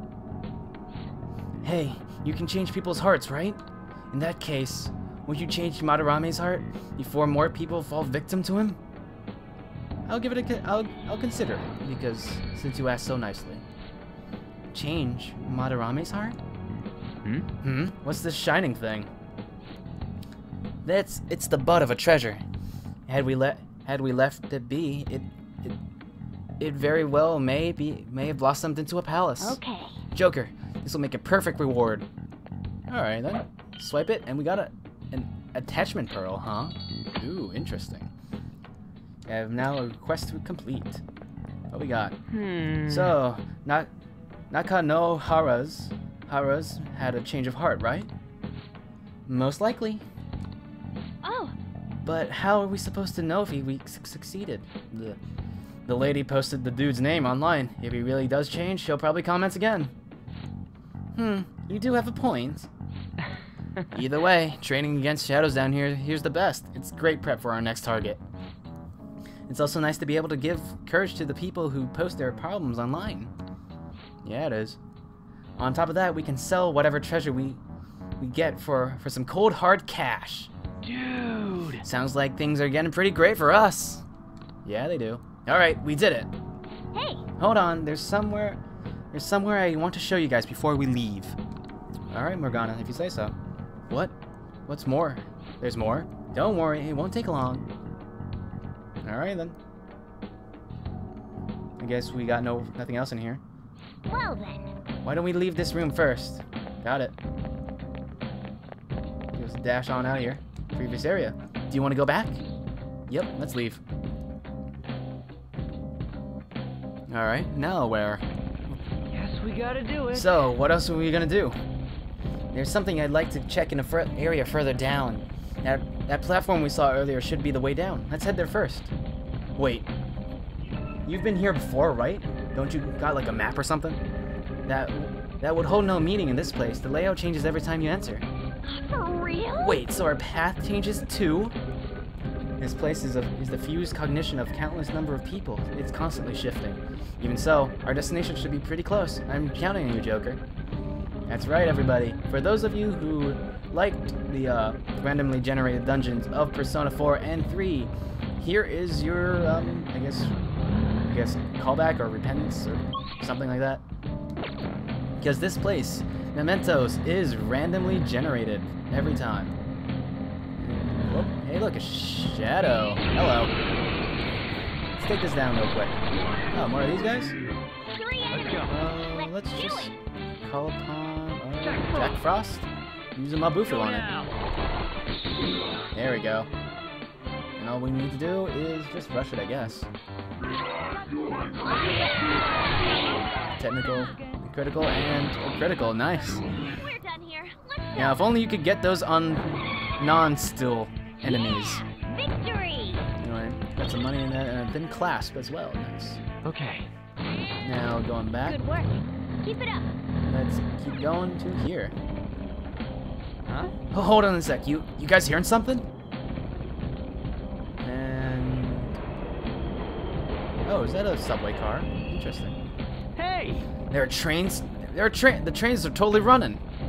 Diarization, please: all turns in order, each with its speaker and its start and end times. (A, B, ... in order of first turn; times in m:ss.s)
0:01.6-0:08.8 A
0:10.0-0:13.6 A
0:14.7-0:16.4 A
0:17.6-0:19.1 A
0:20.8-0:22.4 A
0:23.1-0:25.8 A
0:26.6-0:29.6 A
0:29.4-0:30.0 B
0:30.1-0:32.1 A
0:32.9-0:38.1 A
0:39.3-0:41.0 A
0:41.7-0:42.2 A
0:42.3-0:43.1 C
0:42.8-0:43.9 A
0:44.5-0:48.1 A
0:49.3-0:50.0 A
0:51.2-0:51.5 B
0:52.0-0:55.2 A
0:55.8-0:59.9 A
1:01.2-1:02.7 A
1:03.9-1:08.2 A
1:09.5-1:13.3 A
1:14.2-1:14.8 A
1:15.6-1:17.6 A
1:18.2-1:20.5 A
1:20.8-1:21.8 C
1:21.8-1:24.0 A
1:24.6-1:26.3 A
1:26.9-1:27.2 B
1:27.4-1:28.6 A
1:29.1-1:31.4 A
1:32.1-1:33.3 A
1:33.9-1:34.1 A
1:34.7-1:37.6 A
1:39.0-1:39.6 A
1:41.8-1:43.4 A
1:44.0-1:44.7 B
1:45.0-1:47.1 A
1:49.3-1:52.4 A
1:53.1-1:53.8 A
1:57.1-1:58.2 A
1:59.1-2:00.4 C
2:00.1-2:01.6 A
2:02.5-2:08.9 A
2:09.6-2:09.9 A
2:11.0-2:14.0 A
2:14.6-2:18.2 A
2:18.7-2:19.8 B
2:19.6-2:21.6 A
2:22.6-2:30.4 A
2:31.3-2:40.4 A
2:41.0-2:43.8 A
2:45.2-2:49.5 A
2:50.6-2:53.5 A
2:55.0-2:57.4 A
2:57.9-2:59.9 B
2:58.3-2:58.7 C
2:58.7-3:04.1 A
3:01.7-3:02.1 C
3:03.7-3:04.3 C
3:05.9-3:06.5 A
3:07.6-3:09.9 A
3:11.6-3:13.4 B
3:13.5-3:16.5 A
3:16.5-3:18.2 B
3:17.9-3:21.8 A
3:21.2-3:23.1 B
3:23.2-3:26.2 A
3:26.4-3:26.9 C
3:27.6-3:28.6 A
3:28.4-3:29.9 B
3:30.2-3:32.0 A
3:33.4-3:33.8 C
3:33.9-3:35.9 A
3:37.8-3:38.9 A
3:40.6-3:42.6 A
3:43.2-3:43.6 C
3:43.9-3:46.6 A